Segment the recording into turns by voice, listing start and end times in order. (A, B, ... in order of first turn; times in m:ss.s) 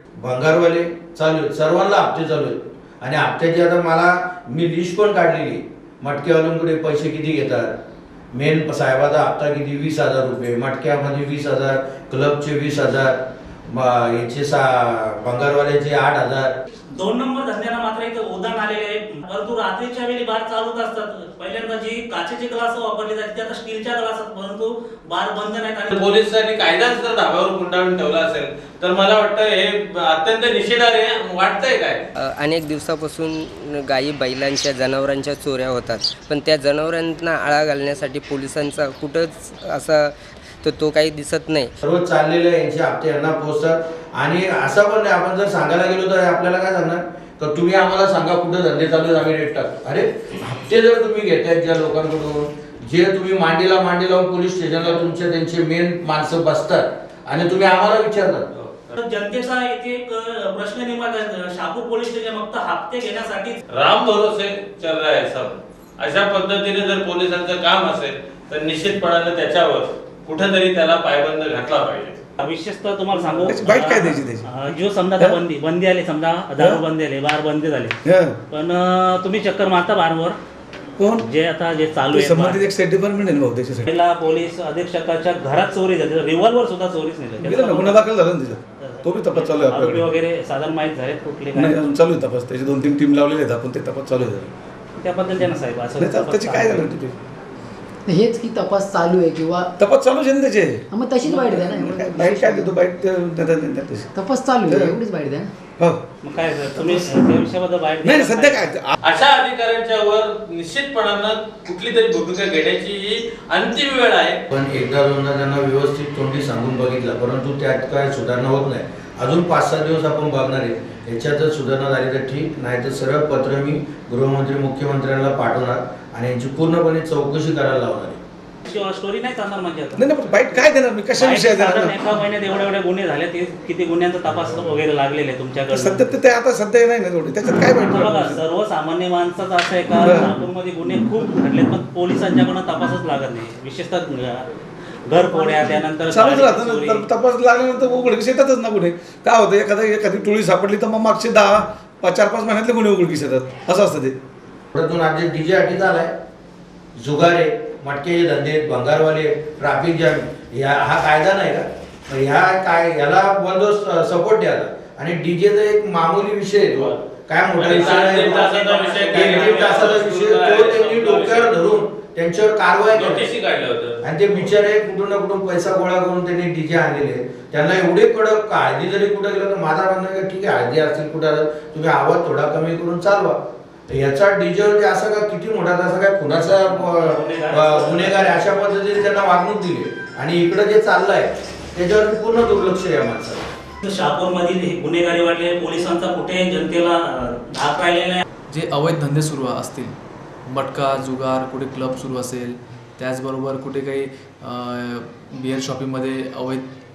0:00.2-0:07.7 A
0:08.4-0:13.2 A
0:13.7-0:16.5 A
0:17.0-0:25.9 B
0:25.9-0:32.0 C
0:32.2-0:41.7 D
0:41.8-0:58.5 A
0:58.5-0:58.9 C
0:59.0-1:03.6 B
1:03.7-1:12.2 C
1:12.4-1:17.9 B
1:13.4-1:14.4 E
1:16.6-1:16.8 E
1:18.0-1:18.4 E
1:18.5-1:20.4 B
1:21.0-1:21.3 E
1:21.2-1:22.6 B
1:22.1-1:23.9 E
1:23.9-1:28.0 B
1:27.4-1:30.1 E
1:28.8-1:31.8 B
1:31.6-1:34.5 E
1:35.0-1:36.9 B
1:36.0-1:37.2 E
1:38.1-1:39.7 F
1:39.8-1:44.1 E
1:40.9-1:42.8 F
1:44.1-1:45.5 F
1:44.7-1:44.9 E
1:46.2-1:48.8 B
1:48.0-1:48.9 E
1:49.0-1:54.4 C
1:54.5-2:08.2 A
2:08.6-2:10.6 B
2:10.0-2:12.0 E
2:11.2-2:16.1 B
2:15.7-2:18.4 E
2:17.7-2:24.4 B
2:20.0-2:20.3 E
2:25.1-2:27.1 B
2:26.1-2:34.2 E
2:34.7-2:36.1 A
2:37.0-2:48.4 A
2:46.7-2:47.0 C
2:47.5-2:51.5 C
2:47.7-2:50.0 B
2:49.1-2:53.3 A
2:52.9-2:54.6 C
2:54.0-3:03.4 A
3:04.0-3:13.5 A
3:06.5-3:08.4 B
3:13.8-3:18.2 B
3:18.5-3:19.9 G
3:20.5-3:26.6 G